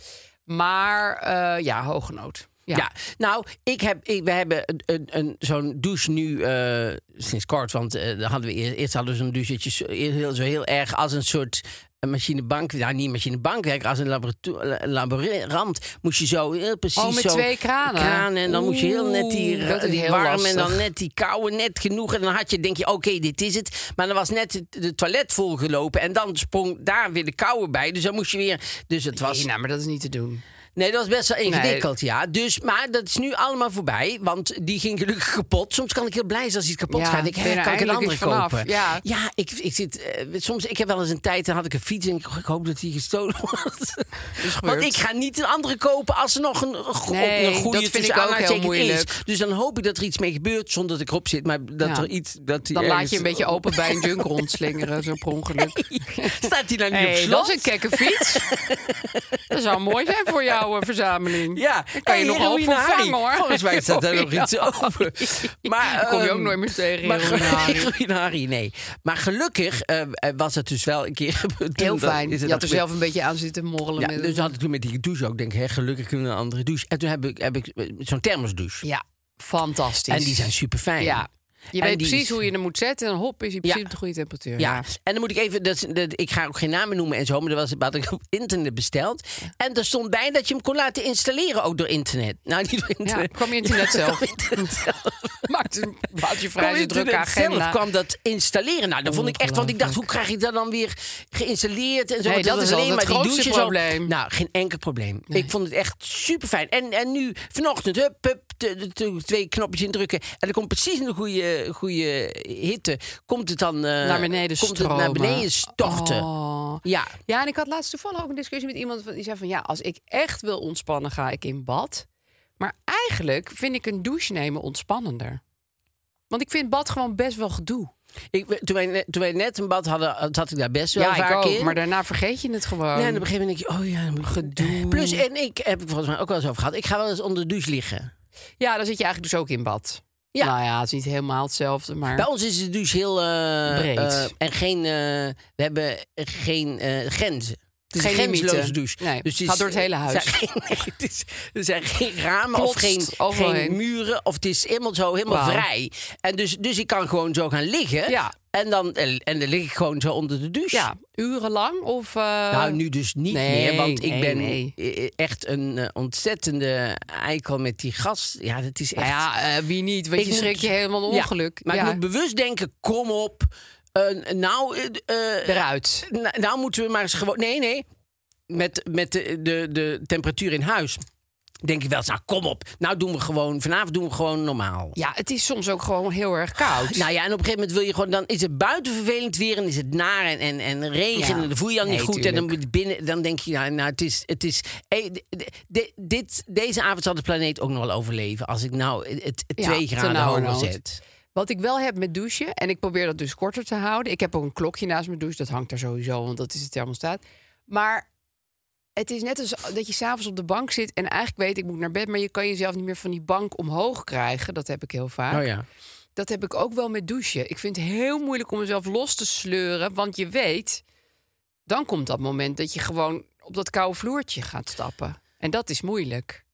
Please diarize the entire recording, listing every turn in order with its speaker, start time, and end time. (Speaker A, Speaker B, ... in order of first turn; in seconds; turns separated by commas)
Speaker A: 0.5-2.9, Speaker B: 2.7-29.5, Speaker A: 17.0-20.8, Speaker A: 29.1-30.4, Speaker B: 30.8-54.8, Speaker A: 31.4-31.9, Speaker A: 36.9-39.0, Speaker A: 44.4-45.0, Speaker A: 47.1-49.1, Speaker A: 51.8-52.1, Speaker A: 52.7-58.4, Speaker B: 55.5-59.2, Speaker A: 59.5-67.9, Speaker B: 61.5-72.8, Speaker A: 71.8-74.5, Speaker B: 74.0-78.8, Speaker A: 78.8-84.8, Speaker B: 80.1-81.2, Speaker B: 81.8-82.3, Speaker B: 84.6-95.5, Speaker A: 93.0-94.8, Speaker A: 95.5-97.8, Speaker B: 96.5-116.3, Speaker A: 99.1-100.0, Speaker A: 102.2-104.1, Speaker A: 114.0-122.0, Speaker B: 116.8-117.2, Speaker A: 122.6-125.4, Speaker A: 126.3-127.9, Speaker B: 128.3-131.8, Speaker A: 130.9-133.2, Speaker B: 132.9-138.1, Speaker A: 134.2-135.2, Speaker A: 138.6-142.3, Speaker B: 142.1-160.9, Speaker A: 143.7-144.3, Speaker A: 147.9-150.3, Speaker A: 152.5-153.8, Speaker A: 155.3-155.7, Speaker A: 158.1-158.3, Speaker A: 160.7-164.7, Speaker B: 162.5-169.2, Speaker A: 169.0-172.0, Speaker B: 170.2-177.8, Speaker A: 175.4-176.1, Speaker B: 178.5-181.0, Speaker B: 181.6-185.0, Speaker A: 184.9-187.0, Speaker B: 186.8-201.0, Speaker A: 191.1-192.5, Speaker A: 199.6-200.8, Speaker A: 201.3-208.1, Speaker A: 208.9-215.4, Speaker B: 215.3-215.7, Speaker A: 216.2-220.8, Speaker A: 221.7-226.4